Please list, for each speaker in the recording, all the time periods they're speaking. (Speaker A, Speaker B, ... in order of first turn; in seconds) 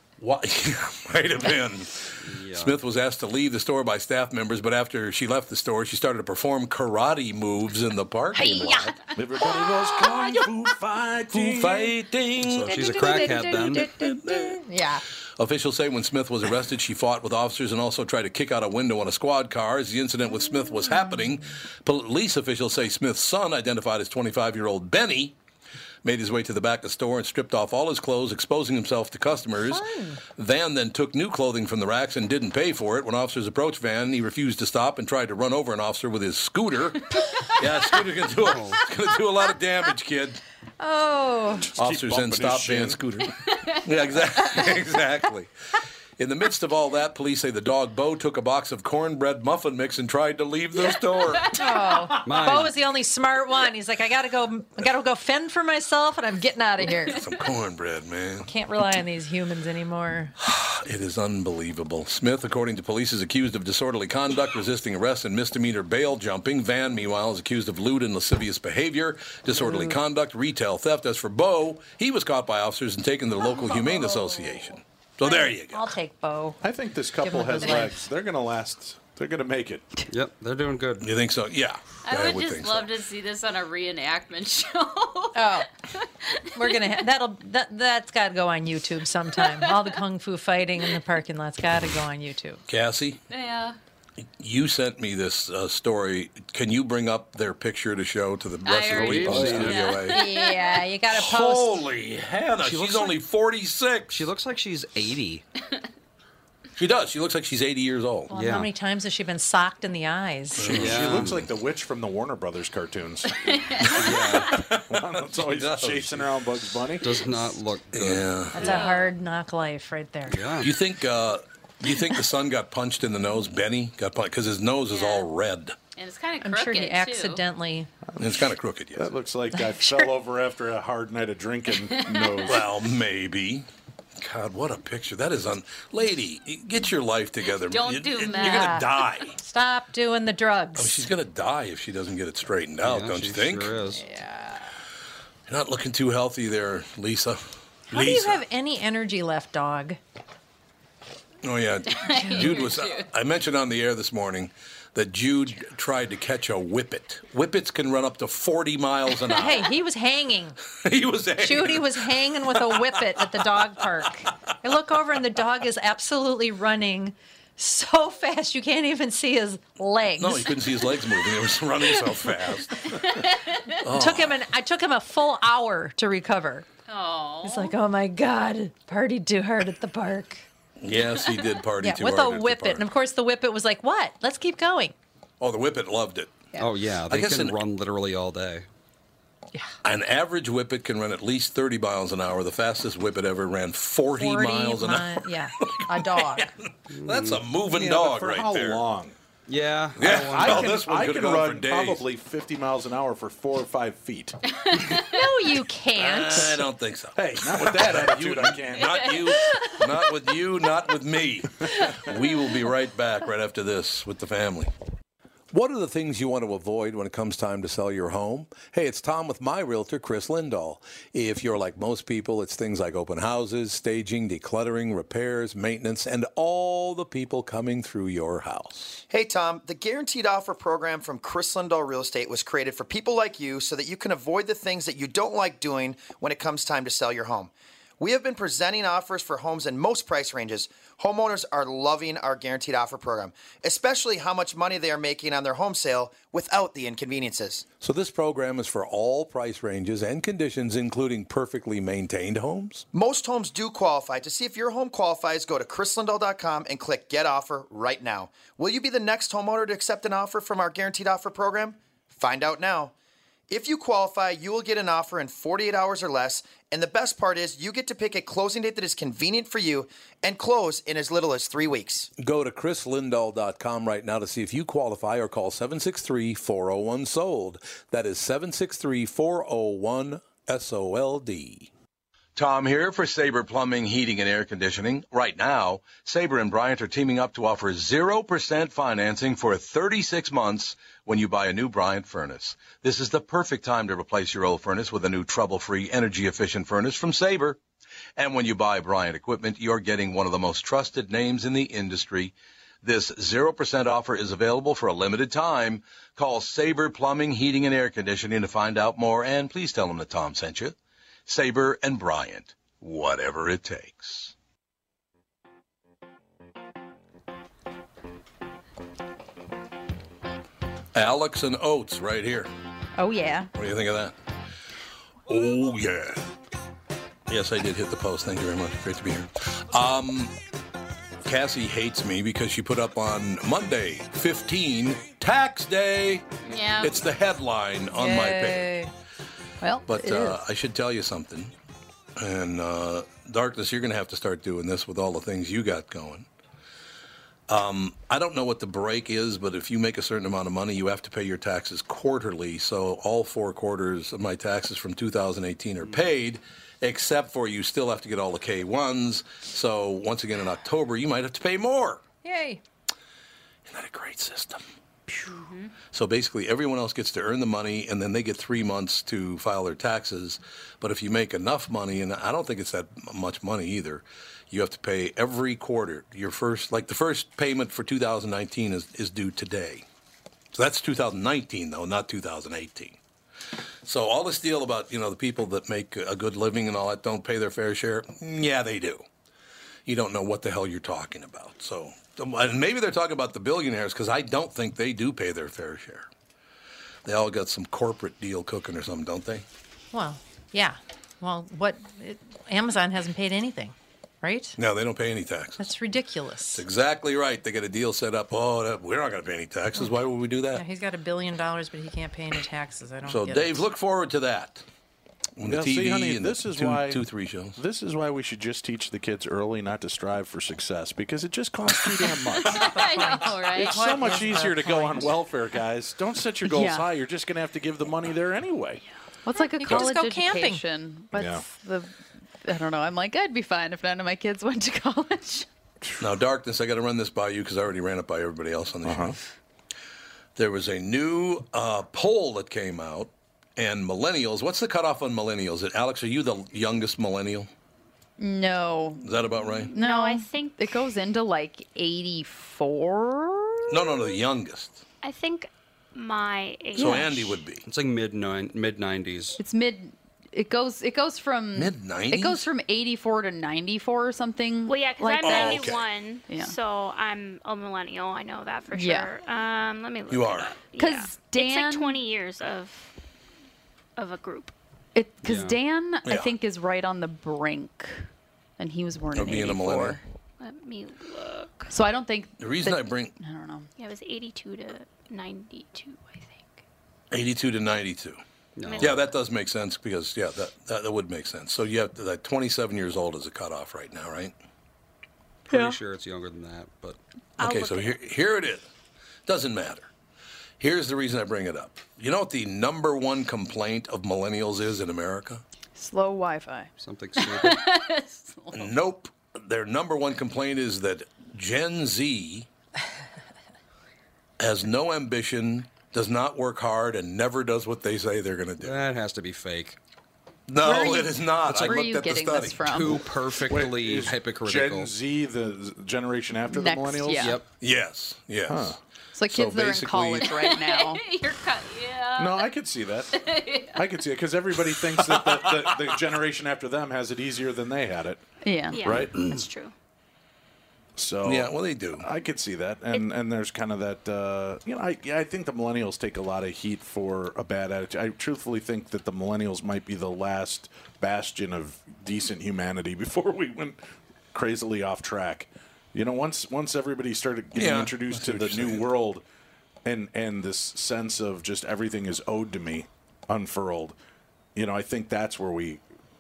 Speaker A: 0.2-8.9, 10.2-10.5, 11.3-14.6, 15.4-25.4, 26.0-40.4, 41.8-45.5, 46.2-51.6, 52.1-52.5, 57.1-58.5, 60.4-75.9, 81.0-82.9, 92.7-93.2, 94.4-100.2, 101.1-104.2, 106.8-108.3, 110.6-111.3, 114.1-116.3, 117.9-118.8, 120.6-125.8, 128.2-129.1, 132.5-133.7, 134.2-139.4, 140.8-143.7, 145.5-148.4, 151.4-159.7, 160.8-163.4, 170.2-173.0, 173.8-174.4, 180.8-182.8, 185.4-186.4, 187.1-187.6, 189.8-198.8, 200.0-202.0, 206.0-214.7, 215.5-229.0, 247.8-252.8, 272.2-281.7, 282.4-297.6, 298.2-302.3, 302.8-310.7, 311.3-314.3, 320.9-322.5, 323.6-324.1, 325.3-326.2, 327.3-330.3, 331.2-336.2, 336.8-338.8, 339.9-341.5, 342.2-346.3, 347.5-362.0, 363.7-364.6, 365.9-379.9, 380.5-383.0, 383.8-389.0, 389.9-396.1, 397.1-399.4, 404.6-405.7, 406.6-410.6, 413.1-414.6, 415.4-417.6, 436.0-439.2, 440.4-447.5, 449.0-449.7, 453.7-454.8, 456.8-457.6, 461.6-462.5, 465.2-465.8, 470.1-470.6, 476.1-476.3, 479.1-480.0, 482.4-483.2, 487.1-488.2, 488.8-494.3, 497.4-498.7, 499.3-499.9, 500.6-505.4, 508.5-512.5, 514.4-518.9, 520.5-522.9, 527.6-528.8, 529.3-530.3, 541.2-542.1, 557.6-558.9
Speaker B: 2.2-2.8, 12.4-13.9, 38.4-38.8, 52.2-52.7, 80.1-81.1, 98.9-99.9, 102.6-103.1, 104.1-105.4, 108.3-108.7, 110.7-111.5, 114.0-114.6, 117.0-118.3, 120.3-120.7, 142.8-144.0, 186.6-188.7, 196.9-197.4, 199.5-200.8, 457.6-459.4, 475.2-475.6, 488.6-489.0, 495.5-497.0, 506.8-507.6, 518.6-519.8, 522.7-524.9, 527.2-527.5
Speaker C: 8.5-8.8, 323.0-323.5, 339.6-340.4, 426.4-426.9, 429.3-435.5, 448.2-449.1, 449.7-453.9, 459.4-465.7, 466.3-466.5, 468.7-469.1, 470.8-472.0, 474.9-480.0, 481.7-483.7, 495.5-495.8, 505.8-506.7, 520.6-523.0, 526.5-527.4, 529.1-531.0, 538.4-539.0
Speaker D: 9.2-12.0, 41.7-43.0, 76.6-79.9, 110.8-113.3, 114.5-117.2, 128.1-132.7, 197.7-199.2, 200.0-204.4, 207.2-209.1, 415.4-422.8, 423.5-428.8, 431.1-431.4, 438.8-439.2, 523.5-527.4, 528.5-528.8, 532.1-533.2, 533.7-538.2, 538.8-539.1, 541.0-553.8, 554.3-559.2, 559.8-564.0, 564.5-565.8
Speaker E: 12.7-15.0, 29.7-30.2, 40.8-41.7, 51.5-57.2, 58.5-60.4, 69.5-70.0, 73.8-74.3, 75.2-76.6, 77.2-78.0, 85.3-85.7, 86.5-92.6, 100.1-101.8, 108.3-110.8, 118.5-120.4, 126.4-127.9, 138.3-138.9, 139.4-141.1, 144.1-144.6, 147.9-150.0, 152.1-152.6, 159.3-160.6, 161.4-170.7, 173.8-176.7, 177.4-180.4, 181.8-184.9, 194.1-196.5, 204.9-206.6, 338.0-338.9, 362.2-362.6, 399.9-404.6, 405.6-406.6, 410.5-413.6, 422.5-425.1, 429.4-430.6
Speaker F: 51.3-52.1, 82.0-86.9, 93.3-93.8, 98.7-100.8, 113.4-113.9, 118.6-119.1, 124.9-125.3, 126.0-127.4, 131.9-132.5, 137.5-138.8, 151.9-153.1, 173.0-173.8, 176.9-177.7, 204.7-205.2, 336.4-337.0, 422.5-424.2, 507.4-508.5, 530.2-532.5, 533.1-534.0
Speaker G: 229.1-247.7, 252.9-262.9, 263.5-272.1
Speaker H: 449.5-450.9, 455.0-457.3, 464.7-472.9, 474.0-474.5, 480.4-481.7, 483.8-486.6, 488.6-489.2, 538.7-539.7